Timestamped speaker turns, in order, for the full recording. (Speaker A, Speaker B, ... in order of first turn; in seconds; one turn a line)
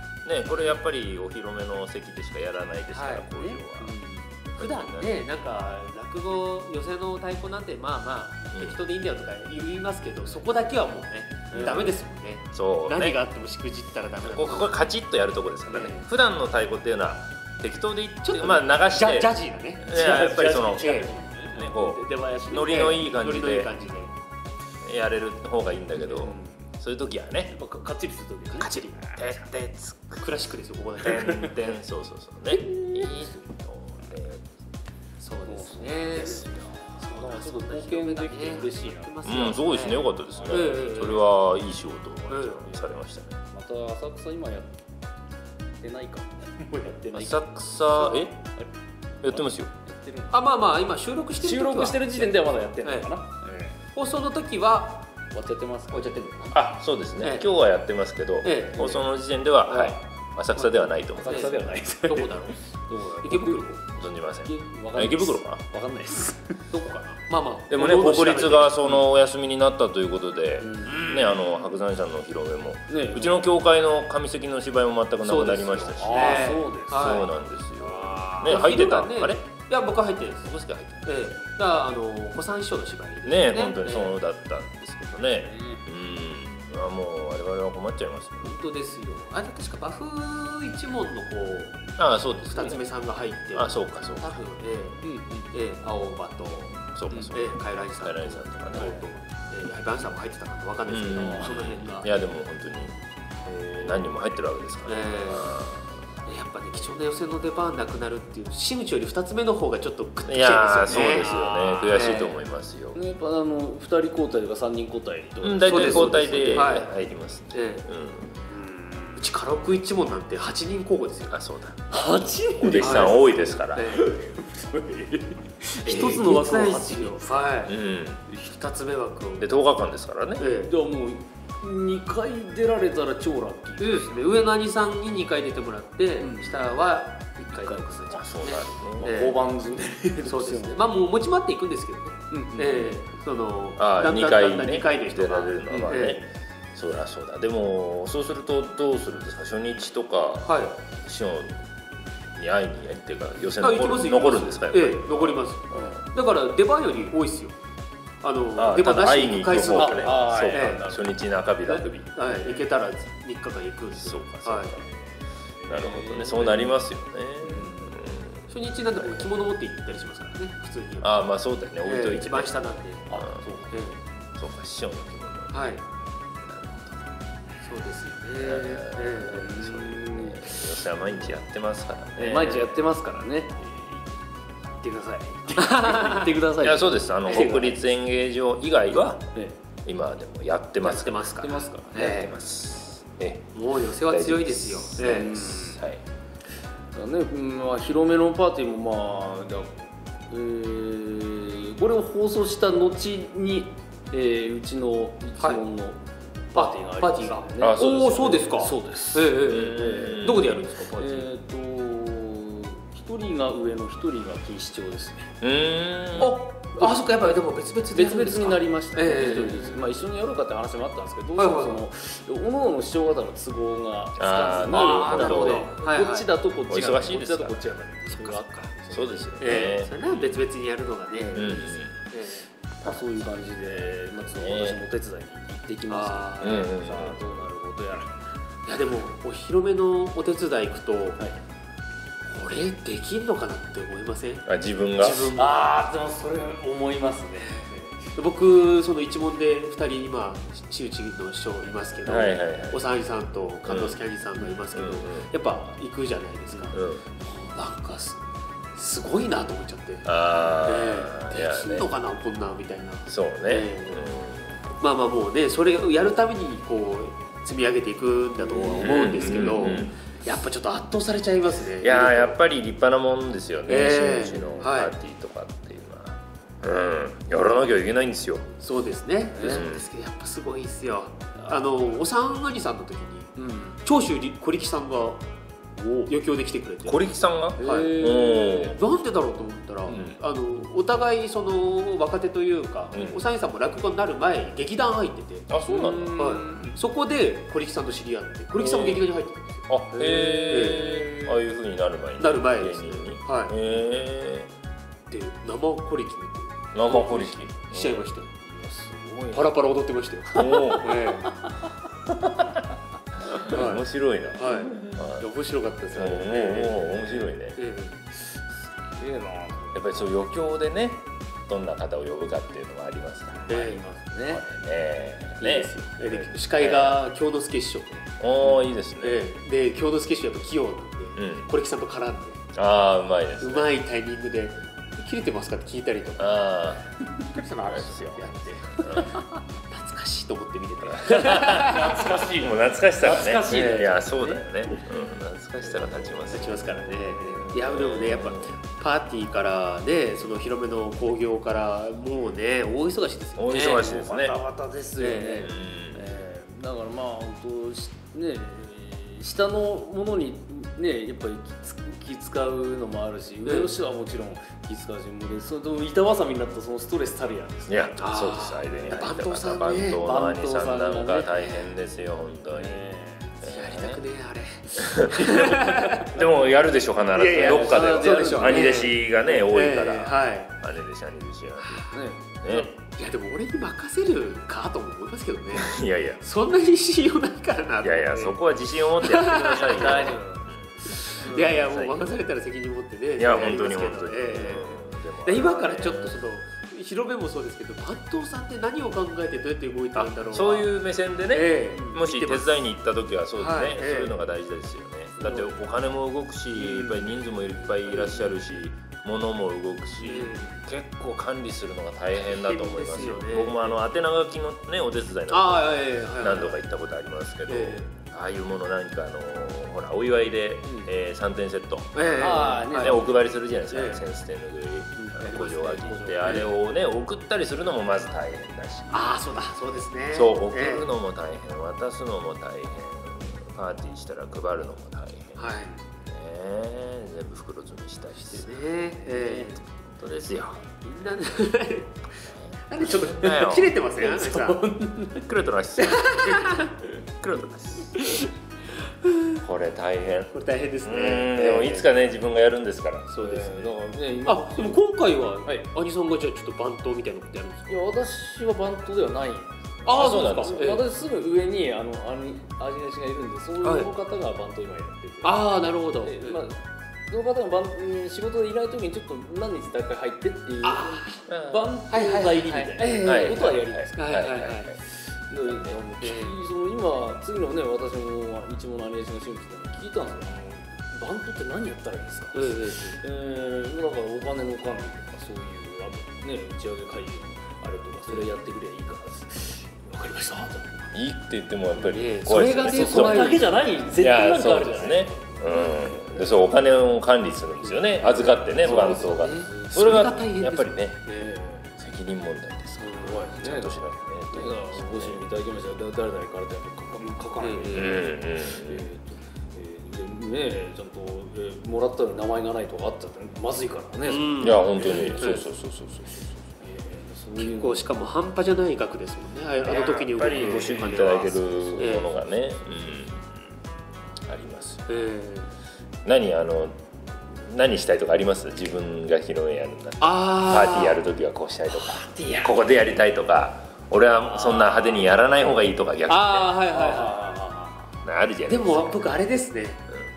Speaker A: 0.2-3.9
Speaker B: 2.9-3.6
Speaker C: 3.8-4.2
Speaker A: 4.5-5.2
Speaker B: 4.5-14.8
Speaker A: 8.5-8.8
Speaker C: 11.5-11.9
Speaker A: 11.6-11.9
Speaker A: 12.5-13.2
Speaker A: 14.2-23.7
Speaker B: 15.7-16.0
Speaker B: 18.2-21.1
Speaker C: 19.9-22.9
Speaker B: 22.5-24.1
Speaker A: 24.8-27.6
Speaker C: 26.0-26.6
Speaker C: 27.5-29.2
Speaker A: 28.5-30.2
Speaker B: 30.2-31.7
Speaker A: 31.0-34.5
Speaker C: 32.7-33.4
Speaker B: 35.2-36.5
Speaker C: 35.5-39.1
Speaker B: 37.0-41.2
Speaker A: 39.2-43.4
Speaker C: 40.3-40.8
Speaker B: 42.3-42.6
Speaker C: 43.5-44.8
Speaker C: 45.8-48.7
Speaker A: 47.1-48.3
Speaker A: 49.2-49.7
Speaker C: 49.3-50.5
Speaker B: 50.3-53.1
Speaker C: 51.4-53.8
Speaker B: 53.9-55.1
Speaker C: 55.3-56.3
Speaker B: 55.9-56.5
Speaker A: 56.5-61.6
Speaker B: 57.2-57.5
Speaker B: 58.4-59.0
Speaker C: 59.7-60.0
Speaker C: 60.9-63.6
Speaker B: 61.3-62.7
Speaker B: 63.2-63.8
Speaker A: 63.9-65.6
Speaker C: 64.4-67.2
Speaker B: 67.2-68.9
Speaker A: 67.7-79.5
Speaker C: 70.6-71.1
Speaker B: 70.9-71.4
Speaker C: 72.9-73.4
Speaker B: 75.2-77.3
Speaker C: 75.9-78.7
Speaker B: 78.4-84.2
Speaker A: 80.4-81.2
Speaker A: 83.2-88.5
Speaker C: 85.4-85.8
Speaker B: 88.4-102.1
Speaker A: 92.0-92.8
Speaker A: 93.5-94.4
Speaker C: 95.0-95.5
Speaker A: 96.9-98.9
Speaker C: 98.7-99.0
Speaker A: 100.9-103.0
Speaker C: 101.2-101.5
Speaker C: 103.5-103.9
Speaker A: 103.8-105.9
Speaker B: 104.8-105.5
Speaker B: 106.2-112.4
Speaker A: 110.2-113.0
Speaker C: 110.9-111.6
Speaker C: 112.9-116.8
Speaker A: 115.4-118.4
Speaker B: 115.7-116.9
Speaker B: 117.5-117.8
Speaker B: 118.5-121.4
Speaker A: 121.3-121.8
Speaker C: 121.9-123.2
Speaker A: 122.6-124.0
Speaker B: 122.8-124.1
Speaker C: 123.8-127.4
Speaker B: 125.8-129.5
Speaker A: 127.7-128.2
Speaker A: 129.4-130.5
Speaker B: 130.4-130.7
Speaker C: 130.6-134.3
Speaker B: 133.8-139.4
Speaker C: 136.2-136.7
Speaker C: 137.5-138.0
Speaker A: 138.1-139.1
Speaker C: 139.0-140.8
Speaker B: 140.2-146.2
Speaker C: 142.3-142.9
Speaker A: 143.8-151.6
Speaker C: 145.7-146.2
Speaker B: 150.4-150.7
Speaker A: 152.4-156.0
Speaker B: 153.6-157.6
Speaker B: 158.2-160.8
Speaker A: 158.6-162.1
Speaker C: 159.7-161.1
Speaker B: 161.6-164.8
Speaker A: 163.9-164.8
Speaker C: 164.9-166.8
Speaker A: 165.7-169.3
Speaker C: 167.4-168.0
Speaker B: 168.5-171.2
Speaker A: 171.0-172.6
Speaker B: 171.8-173.1
Speaker C: 173.1-173.8
Speaker A: 173.1-173.4
Speaker B: 173.7-174.0
Speaker A: 174.3-175.7
Speaker B: 175.5-175.8
Speaker A: 176.4-177.1
Speaker B: 177.6-180.0
Speaker A: 178.4-182.7
Speaker C: 179.5-180.6
Speaker C: 182.2-184.2
Speaker C: 184.8-187.5
Speaker B: 185.5-186.3
Speaker A: 186.6-189.3
Speaker B: 187.2-187.8
Speaker A: 189.8-191.3
Speaker B: 190.8-192.3
Speaker C: 191.4-192.2
Speaker A: 191.9-196.0
Speaker B: 193.5-195.7
Speaker C: 195.0-195.8
Speaker C: 196.9-206.0
Speaker C: 206.5-215.3
Speaker B: 206.5-211.3
Speaker A: 207.6-208.4
Speaker A: 209.4-210.6
Speaker A: 215.4-216.3
Speaker B: 216.2-219.8
Speaker C: 216.8-217.0
Speaker C: 217.9-229.4
Speaker B: 221.4-221.8
Speaker A: 224.2-225.7
Speaker B: 224.4-226.3
Speaker A: 226.7-227.7
Speaker B: 228.1-228.7
Speaker A: 228.9-230.4
Speaker B: 229.4-232.4
Speaker A: 231.3-232.0
Speaker C: 232.8-238.2
Speaker A: 232.8-233.1
Speaker A: 234.3-234.8
Speaker B: 235.9-236.7
Speaker A: 236.4-237.4
Speaker B: 238.7-241.2
Speaker B: 242.2-245.6
Speaker A: 244.5-245.4
Speaker C: 245.3-248.1
Speaker B: 248.2-258.2
Speaker A: 252.0-252.8
Speaker A: 253.6-255.3
Speaker A: 256.7-257.0
Speaker B: 258.8-260.1
Speaker A: 260.0-261.9
Speaker B: 260.6-264.1
Speaker A: 263.1-264.6
Speaker B: 264.8-272.4
Speaker A: 268.7-269.9
Speaker A: 271.8-278.5
Speaker B: 273.7-274.9
Speaker B: 278.6-285.2
Speaker A: 279.4-279.9
Speaker C: 283.4-283.8
Speaker C: 285.8-286.1
Speaker B: 286.1-287.0
Speaker A: 286.9-288.8
Speaker C: 287.6-288.8
Speaker B: 287.6-295.5
Speaker C: 289.9-290.1
Speaker A: 289.9-290.2
Speaker A: 292.9-293.2
Speaker A: 295.5-296.2
Speaker C: 295.6-296.8
Speaker B: 296.2-301.4
Speaker A: 298.6-299.1
Speaker A: 299.7-304.5
Speaker C: 300.0-300.8
Speaker B: 302.2-303.6
Speaker B: 305.1-308.4
Speaker A: 306.7-308.0
Speaker C: 308.4-309.5
Speaker B: 309.3-311.4
Speaker A: 310.3-311.1
Speaker C: 310.4-311.5
Speaker A: 312.1-312.6
Speaker A: 313.2-315.2
Speaker B: 313.4-318.0
Speaker A: 315.9-317.6
Speaker C: 318.9-319.8
Speaker A: 319.7-323.6
Speaker C: 323.5-324.4
Speaker B: 323.5-323.8
Speaker A: 324.2-327.0
Speaker B: 325.4-332.5
Speaker A: 328.2-329.2
Speaker A: 331.2-331.5
Speaker A: 332.5-333.7
Speaker B: 333.4-336.4
Speaker A: 336.2-336.8
Speaker B: 337.3-342.2
Speaker A: 337.7-339.2
Speaker A: 340.9-348.5
Speaker C: 341.2-344.5
Speaker B: 343.5-343.9
Speaker B: 346.2-353.9
Speaker A: 353.4-354.4
Speaker C: 353.5-368.0
Speaker B: 355.0-355.5
Speaker A: 355.4-356.0
Speaker B: 363.4-363.7
Speaker A: 367.7-372.8
Speaker B: 368.0-370.1
Speaker C: 370.0-371.5
Speaker C: 372.5-373.4
Speaker B: 373.4-376.1
Speaker A: 373.4-374.0
Speaker A: 374.8-381.9
Speaker B: 377.1-380.6
Speaker C: 377.3-378.9
Speaker B: 381.6-382.0
Speaker C: 381.9-382.7
Speaker A: 382.4-382.7
Speaker B: 382.5-390.2
Speaker A: 385.5-386.2
Speaker A: 387.8-392.1
Speaker C: 389.6-390.5
Speaker B: 390.8-400.7
Speaker C: 391.2-391.5
Speaker A: 393.2-396.1
Speaker A: 399.9-429.1
Speaker B: 401.3-402.6
Speaker B: 403.4-404.2
Speaker B: 406.5-407.1
Speaker B: 410.0-410.6
Speaker B: 412.2-413.8
Speaker B: 415.3-416.6
Speaker B: 417.5-417.9
Speaker B: 421.9-423.1
Speaker C: 422.2-423.1
Speaker B: 423.7-424.0
Speaker C: 425.0-426.5
Speaker B: 425.2-426.5
Speaker B: 428.9-430.9
Speaker A: 430.1-438.7
Speaker B: 435.4-435.7
Speaker B: 438.2-442.1
Speaker C: 439.1-439.5
Speaker A: 440.2-440.6
Speaker B: 442.7-444.7
Speaker A: 442.8-443.8
Speaker C: 444.0-445.3
Speaker A: 445.1-448.1
Speaker B: 445.8-446.7
Speaker B: 449.0-449.4
Speaker A: 449.4-453.3
Speaker B: 450.3-451.9
Speaker B: 453.1-457.8
Speaker C: 453.2-454.8
Speaker C: 457.7-474.0
Speaker B: 459.8-460.8
Speaker A: 459.9-460.6
Speaker B: 463.6-463.9
Speaker B: 465.2-466.4
Speaker B: 470.6-471.2
Speaker A: 471.3-471.8
Speaker B: 471.9-474.7
Speaker A: 473.0-474.8
Speaker C: 474.9-490.9
Speaker A: 475.5-475.8
Speaker B: 476.0-476.4
Speaker B: 482.3-483.0
Speaker A: 490.9-493.4
Speaker B: 491.8-493.5
Speaker C: 492.7-496.2
Speaker A: 494.0-501.0
Speaker C: 498.0-499.7
Speaker B: 498.5-501.4
Speaker C: 501.2-501.7
Speaker A: 501.8-505.2
Speaker C: 502.8-515.4
Speaker B: 507.4-508.1
Speaker A: 507.7-508.9
Speaker B: 514.0-515.5
Speaker A: 514.4-516.2
Speaker C: 516.2-517.9
Speaker B: 517.4-522.1
Speaker A: 519.6-523.2
Speaker C: 521.7-522.0
Speaker A: 524.2-524.9
Speaker B: 524.9-525.5
Speaker A: 526.0-526.7
Speaker A: 527.3-536.6
Speaker B: 530.0-531.0
Speaker B: 531.8-532.5
Speaker C: 534.3-535.0
Speaker B: 536.1-537.3
Speaker C: 536.7-538.0
Speaker A: 538.0-539.1
Speaker B: 538.5-539.8